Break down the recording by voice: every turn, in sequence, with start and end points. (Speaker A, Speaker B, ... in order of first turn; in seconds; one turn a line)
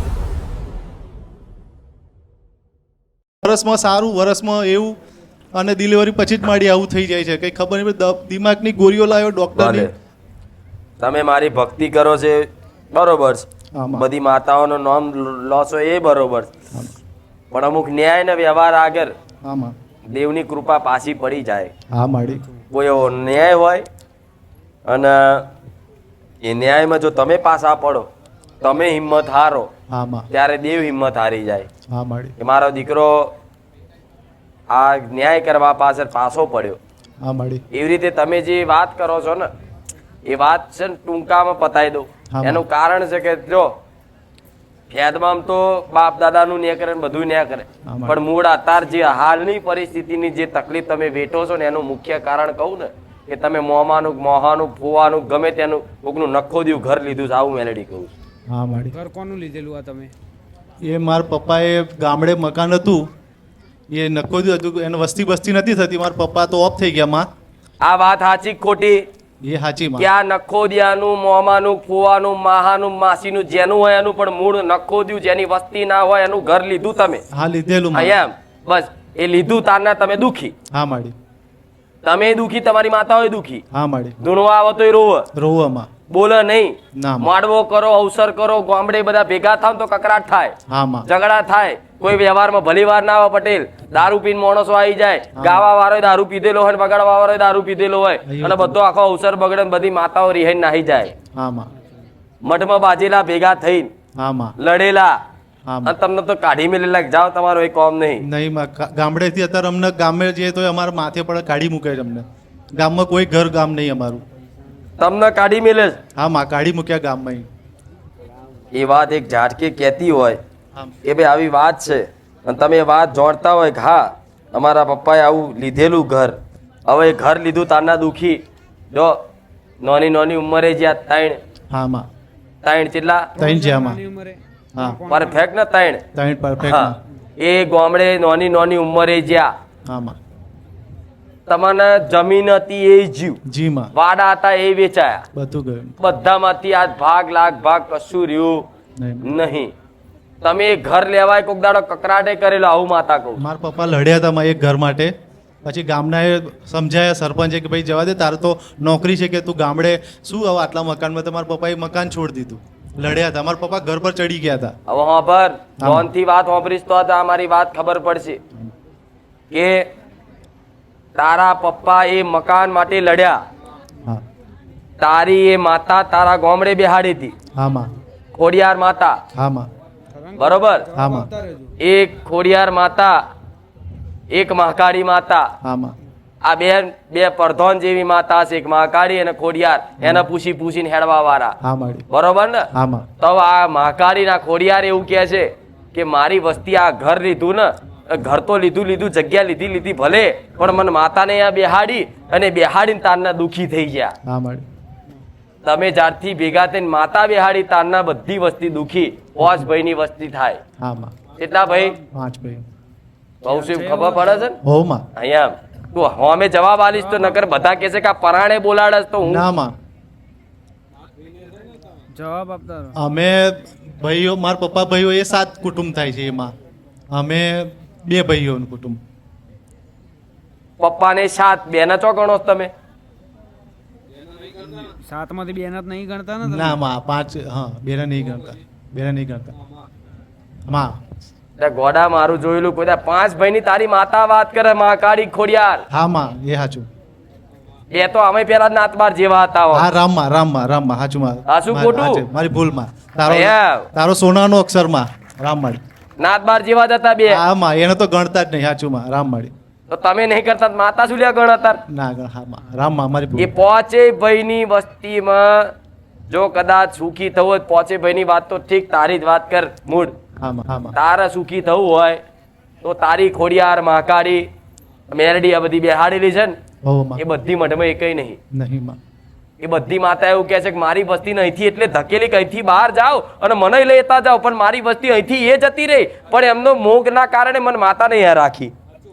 Speaker A: 3.4-5.0
Speaker A: 5.5-9.9
Speaker B: 9.5-9.9
Speaker B: 11.0-16.5
Speaker A: 13.7-14.1
Speaker B: 17.5-19.1
Speaker A: 19.4-19.7
Speaker B: 20.1-21.7
Speaker A: 21.9-22.4
Speaker B: 22.7-23.8
Speaker B: 24.9-25.5
Speaker B: 26.4-28.1
Speaker B: 28.6-29.7
Speaker A: 29.9-30.2
Speaker B: 30.3-31.7
Speaker A: 31.9-32.3
Speaker B: 32.4-33.3
Speaker B: 34.7-36.8
Speaker A: 37.2-37.6
Speaker B: 37.7-39.5
Speaker B: 40.2-43.7
Speaker A: 42.3-42.6
Speaker B: 44.9-58.1
Speaker A: 47.9-48.2
Speaker A: 58.5-59.0
Speaker C: 58.9-60.1
Speaker A: 60.8-63.1
Speaker A: 63.9-67.3
Speaker B: 67.8-69.0
Speaker A: 69.4-70.1
Speaker B: 70.0-77.2
Speaker A: 77.3-78.2
Speaker B: 77.9-80.5
Speaker A: 80.7-81.1
Speaker B: 82.0-83.6
Speaker A: 83.7-84.2
Speaker B: 84.2-85.3
Speaker A: 85.3-85.9
Speaker B: 86.1-90.5
Speaker A: 87.0-87.3
Speaker A: 90.7-91.1
Speaker B: 91.0-101.1
Speaker A: 95.4-95.7
Speaker A: 98.2-98.7
Speaker A: 101.3-101.7
Speaker B: 102.4-103.9
Speaker A: 104.2-104.5
Speaker B: 104.6-105.2
Speaker A: 105.7-105.9
Speaker B: 105.8-108.2
Speaker A: 108.2-114.2
Speaker B: 115.0-116.0
Speaker A: 116.2-117.5
Speaker B: 118.7-120.4
Speaker B: 121.0-126.3
Speaker B: 126.9-128.4
Speaker B: 129.8-131.4
Speaker A: 131.7-132.1
Speaker B: 132.6-133.3
Speaker C: 133.3-135.4
Speaker A: 133.4-134.0
Speaker A: 134.7-135.1
Speaker B: 135.1-136.0
Speaker A: 136.1-137.0
Speaker B: 136.6-139.5
Speaker A: 139.9-140.2
Speaker B: 141.5-143.4
Speaker A: 143.4-143.9
Speaker B: 143.9-145.3
Speaker A: 145.3-145.9
Speaker B: 146.0-148.7
Speaker A: 149.0-149.3
Speaker B: 149.2-149.7
Speaker B: 150.4-153.4
Speaker A: 153.4-155.1
Speaker A: 155.6-164.7
Speaker B: 164.9-168.4
Speaker A: 165.8-166.1
Speaker B: 169.5-169.9
Speaker B: 171.2-173.4
Speaker B: 175.0-177.3
Speaker A: 177.5-177.9
Speaker B: 178.3-179.2
Speaker A: 179.3-179.7
Speaker C: 180.2-181.7
Speaker B: 180.4-180.9
Speaker A: 180.9-181.3
Speaker B: 181.8-183.2
Speaker B: 184.3-185.5
Speaker A: 185.6-185.9
Speaker B: 186.4-191.6
Speaker A: 190.0-190.3
Speaker A: 191.6-192.0
Speaker B: 192.1-192.7
Speaker A: 192.7-193.1
Speaker B: 193.2-204.2
Speaker A: 204.2-204.6
Speaker B: 205.6-210.6
Speaker A: 210.8-211.2
Speaker B: 211.4-212.0
Speaker A: 212.1-212.6
Speaker B: 213.4-214.6
Speaker C: 213.5-214.5
Speaker A: 214.6-215.1
Speaker B: 215.1-219.4
Speaker A: 219.2-219.7
Speaker C: 222.1-222.9
Speaker A: 222.9-226.5
Speaker A: 227.1-229.0
Speaker B: 230.8-232.7
Speaker C: 234.6-236.8
Speaker A: 236.4-239.5
Speaker A: 240.7-241.0
Speaker B: 241.6-245.8
Speaker A: 245.9-246.8
Speaker B: 247.9-249.8
Speaker A: 249.7-255.8
Speaker B: 251.5-252.2
Speaker B: 253.3-253.9
Speaker B: 256.2-257.4
Speaker A: 257.3-259.5
Speaker B: 259.9-261.8
Speaker A: 261.9-263.5
Speaker B: 263.4-265.7
Speaker B: 266.3-270.1
Speaker A: 270.4-270.9
Speaker B: 270.9-272.2
Speaker B: 272.8-274.5
Speaker B: 275.1-276.6
Speaker A: 276.8-277.2
Speaker B: 277.2-278.4
Speaker A: 278.5-279.0
Speaker B: 279.6-288.7